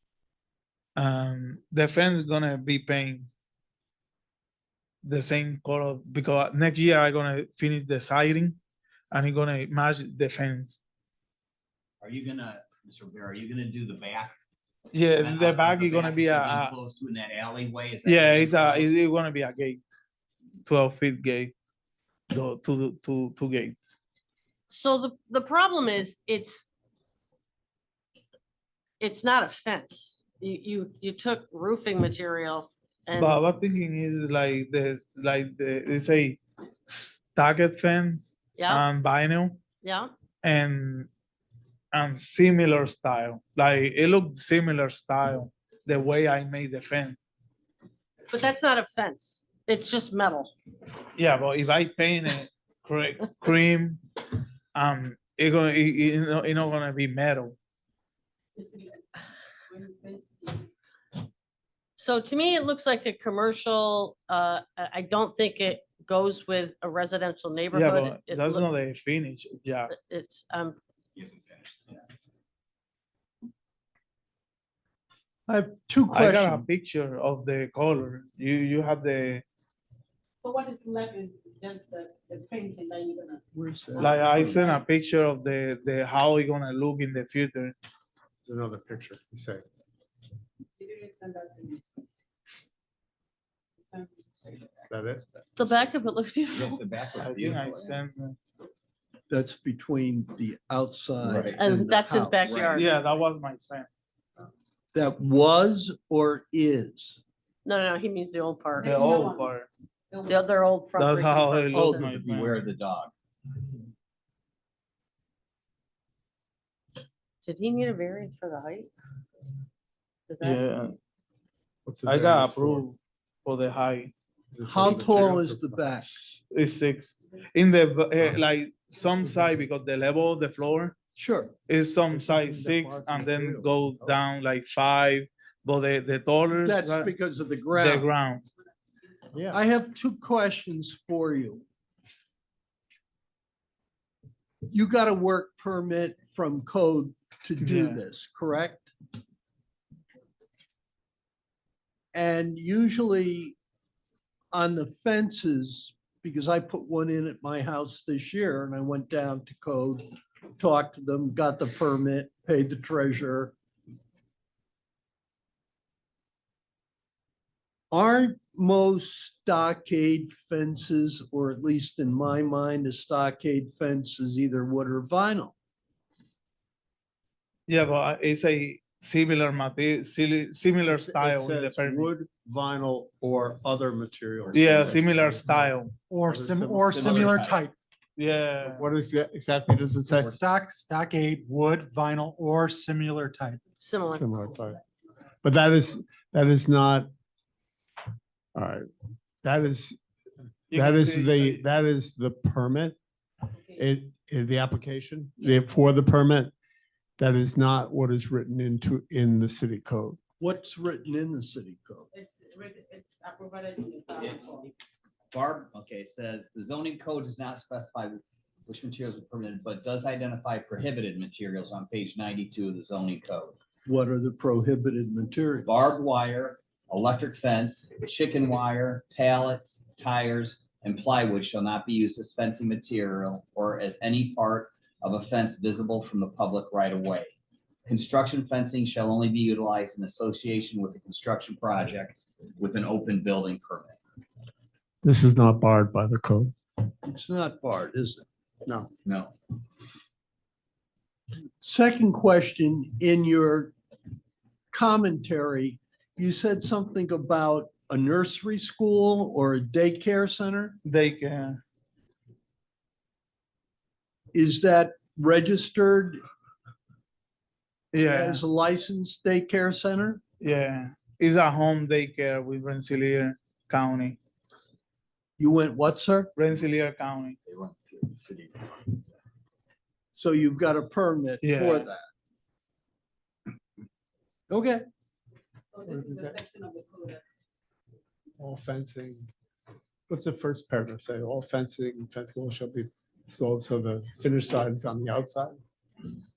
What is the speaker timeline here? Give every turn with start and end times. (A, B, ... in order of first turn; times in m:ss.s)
0:01.0-0:03.3 A
0:05.0-0:08.6 A
0:09.1-0:10.8 A
0:12.0-0:14.4 B
0:14.9-0:16.7 A
0:15.2-0:18.9 B
0:18.0-0:19.8 A
0:20.7-0:21.5 A
0:22.3-0:24.0 A
0:24.7-0:26.7 C
0:29.0-0:33.4 C
0:33.2-0:39.6 A
0:38.6-0:38.8 C
0:39.8-0:40.1 C
0:40.4-0:41.1 A
0:41.9-0:47.2 A
0:48.3-0:50.5 C
0:51.2-0:54.0 A
0:54.8-0:57.6 A
0:59.7-1:00.7 D
1:02.0-1:08.7 C
1:07.7-1:09.9 A
1:09.9-1:10.8 C
1:11.2-1:12.0 B
1:15.5-1:16.7 E
1:16.1-1:19.4 A
1:20.4-1:23.4 D
1:23.5-1:24.6 E
1:24.0-1:24.8 D
1:24.0-1:27.8 A
1:28.4-1:29.6 F
1:30.8-1:31.8 D
1:33.9-1:34.7 D
1:34.9-1:35.4 F
1:35.6-1:36.8 C
1:36.5-1:38.0 B
1:37.2-1:38.4 A
1:39.3-1:42.5 E
1:41.2-1:41.6 B
1:41.6-1:42.9 C
1:42.4-1:42.8 B
1:42.7-1:43.9 A
1:44.9-1:47.2 E
1:47.6-1:49.0 C
1:48.8-1:49.5 D
1:48.8-1:49.7 A
1:50.1-1:50.4 D
1:50.3-1:52.3 C
1:51.0-1:52.6 A
1:51.8-1:53.1 B
1:51.8-1:52.1 E
1:57.4-1:58.9 C
2:00.3-2:00.6 C
2:00.4-2:01.0 A
2:01.9-2:02.8 F
2:02.1-2:04.1 A
2:04.5-2:05.8 F
2:04.7-2:06.2 E
2:06.0-2:11.0 A
2:11.2-2:11.6 E
2:11.7-2:17.1 A
2:12.1-2:14.2 F
2:16.6-2:18.1 E
2:17.8-2:18.4 A
2:19.5-2:21.6 E
2:24.7-2:28.9 E
2:27.6-2:28.0 A
2:32.1-2:33.6 E
2:34.5-2:43.6 E
2:47.9-2:55.6 E
2:57.7-3:02.1 A
3:00.9-3:07.4 F
3:04.5-3:06.0 A
3:06.1-3:07.8 G
3:06.9-3:07.6 B
3:08.2-3:08.9 A
3:08.6-3:10.4 F
3:10.1-3:13.6 G
3:13.8-3:14.3 C
3:14.1-3:14.8 F
3:15.4-3:17.1 F
3:18.6-3:18.9 F
3:19.4-3:20.0 F
3:20.7-3:21.6 A
3:20.7-3:23.0 F
3:23.8-3:26.5 F
3:27.2-3:30.2 F
3:30.4-3:32.1 E
3:32.1-3:34.7 D
3:35.3-3:43.6 B
3:43.9-3:45.7 E
3:45.7-3:57.3 B
3:57.9-4:04.0 B
4:05.0-4:06.5 F
4:07.0-4:08.2 E
4:09.0-4:09.3 B
4:11.6-4:13.7 E
4:14.7-4:20.8 E
4:20.8-4:21.6 A
4:24.3-4:26.2 E
4:27.9-4:28.4 A
4:28.0-4:30.2 E
4:30.4-4:34.2 A
4:35.4-4:36.3 E
4:36.4-4:37.4 A
4:37.5-4:39.2 B
4:40.2-4:42.0 E
4:41.4-4:41.9 A
4:44.5-4:44.9 E
4:45.7-4:47.2 D
4:45.9-4:46.4 F
4:48.4-4:49.3 F
4:50.1-4:55.6 F